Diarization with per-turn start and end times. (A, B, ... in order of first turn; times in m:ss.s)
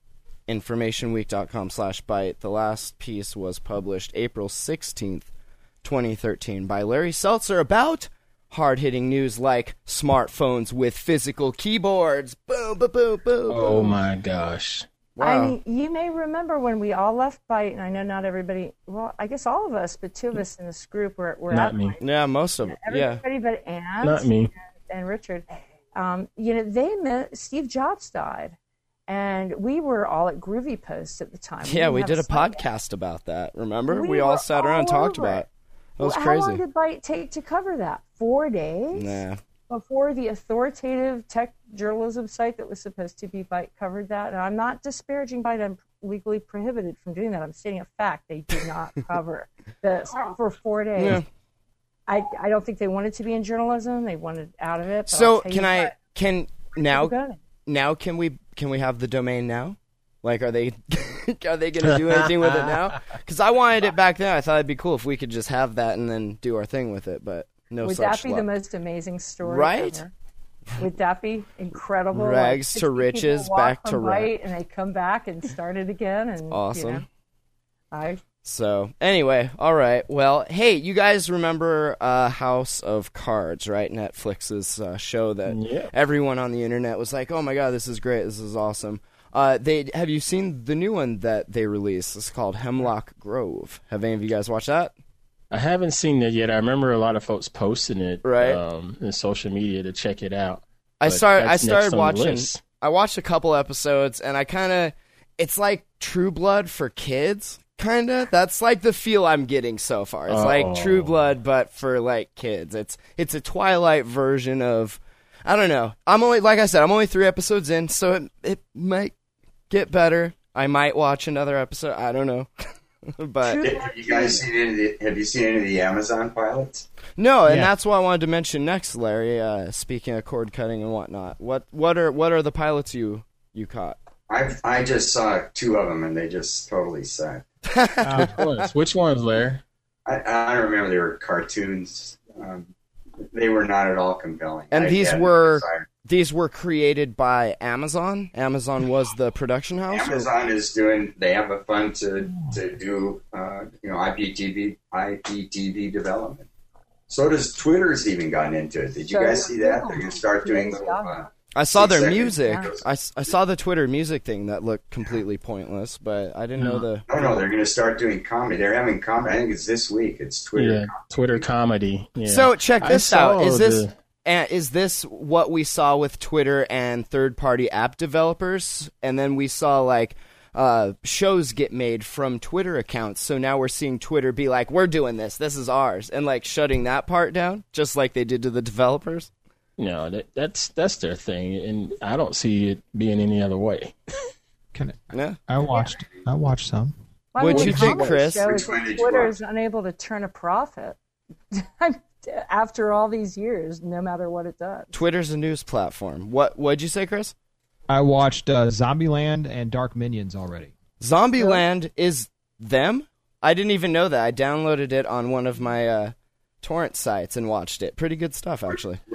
0:00.5-0:05.3 A
0:05.8-0:14.0 A
0:13.5-0:14.9 B
0:15.2-0:15.6 A
0:15.2-0:22.0 C
0:21.5-0:22.0 B
0:22.0-0:23.2 A
0:22.6-0:28.6 C
0:24.0-0:24.5 B
0:29.1-0:32.6 C
0:31.6-0:35.5 A
0:33.9-0:35.4 C
0:36.0-0:36.6 A
0:36.0-0:51.2 C
0:38.9-0:39.4 A
0:51.0-0:51.2 A
0:52.1-0:56.0 C
0:55.1-0:57.1 A
0:56.8-0:57.4 C
0:57.7-1:08.5 A
1:07.8-1:10.1 C
1:09.4-1:10.0 A
1:10.8-1:17.0 C
1:12.1-1:14.3 A
1:16.5-1:17.0 A
1:17.9-1:18.2 C
1:18.4-1:34.9 A
1:25.5-1:25.9 B
1:35.5-1:42.6 B
1:38.2-1:38.6 A
1:41.0-1:59.1 A
1:50.3-1:51.3 B
1:59.7-2:03.7 A
2:03.5-2:04.4 C
2:03.6-2:06.9 D
2:07.2-2:14.0 A
2:07.5-2:07.7 E
2:14.3-2:17.4 D
2:17.6-2:18.6 A
2:18.0-2:18.4 E
2:18.2-2:19.6 B
2:20.1-2:22.7 D
2:23.2-2:25.9 D
2:24.7-2:30.3 A
2:29.9-2:36.5 D
2:37.1-2:42.8 D
2:39.1-2:41.2 C
2:41.5-2:47.4 A
2:42.4-2:42.7 C
2:46.6-2:46.8 B
2:47.1-2:51.4 D
2:50.6-2:53.9 B
2:52.3-3:09.3 A
3:09.8-3:14.0 B
3:14.7-3:17.0 E
3:15.1-3:15.4 A
3:17.3-3:21.0 C
3:17.4-3:18.4 A
3:17.5-3:18.1 B
3:18.4-3:19.4 D
3:21.5-3:24.9 C
3:24.9-3:27.3 A
3:27.9-3:30.7 E
3:31.0-3:39.0 A